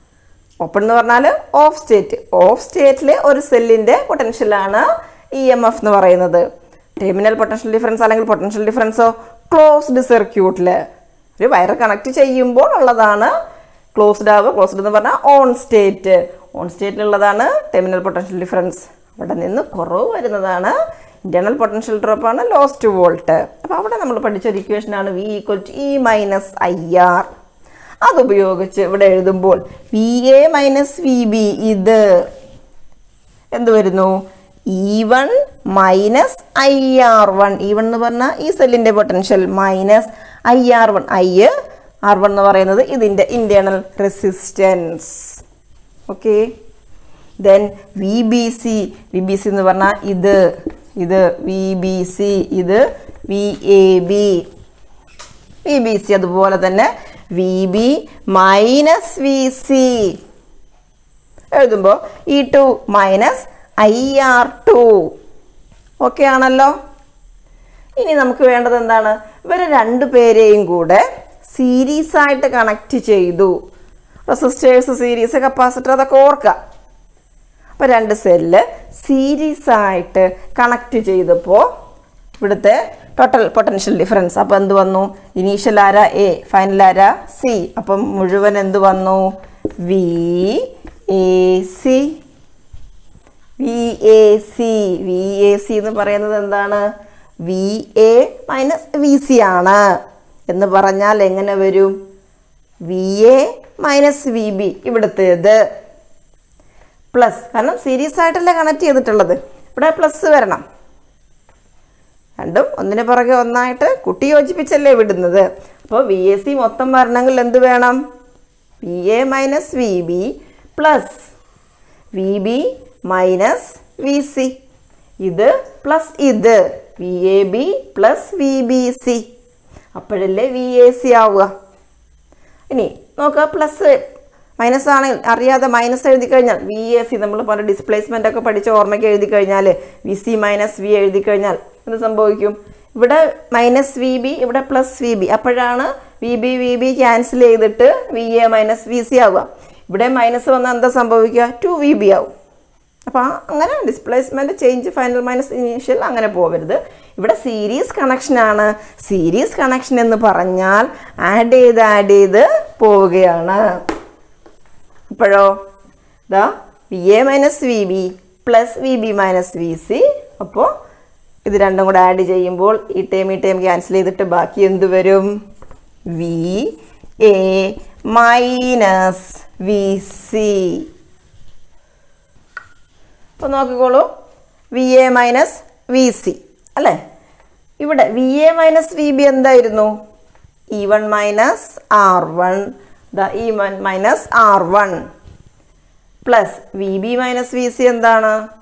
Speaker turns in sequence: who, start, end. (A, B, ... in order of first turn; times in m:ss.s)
0:00.6-0:06.4 A
0:07.0-0:10.8 A
0:11.4-0:13.3 A
0:13.9-0:27.3 A
0:28.0-0:32.0 A
0:33.5-0:34.1 A
0:34.7-0:41.5 A
0:42.1-0:45.4 A
0:46.1-0:46.5 A
0:47.4-0:50.4 A
0:51.0-0:54.4 A
0:55.6-1:00.1 A
1:01.6-1:05.1 A
1:06.0-1:06.7 A
1:08.0-1:13.5 A
1:14.3-1:16.6 A
1:17.8-1:21.6 A
1:22.4-1:29.3 A
1:29.8-1:32.1 A
1:33.6-1:36.8 A
1:37.4-1:39.8 A
1:40.5-1:41.9 A
1:42.8-1:45.6 A
1:47.1-1:50.6 A
1:52.4-1:58.0 A
1:58.8-2:01.3 A
2:02.1-2:04.5 A
2:05.2-2:09.2 A
2:09.9-2:11.5 A
2:12.7-2:13.9 A
2:14.6-2:32.3 A
2:33.1-2:43.6 A
2:45.1-2:45.5 A
2:46.3-2:50.7 A
2:51.4-2:55.3 A
2:56.1-3:00.8 A
3:03.4-3:04.1 A
3:04.7-3:07.0 A
3:07.8-3:09.9 A
3:10.7-3:15.0 A
3:16.2-3:18.4 A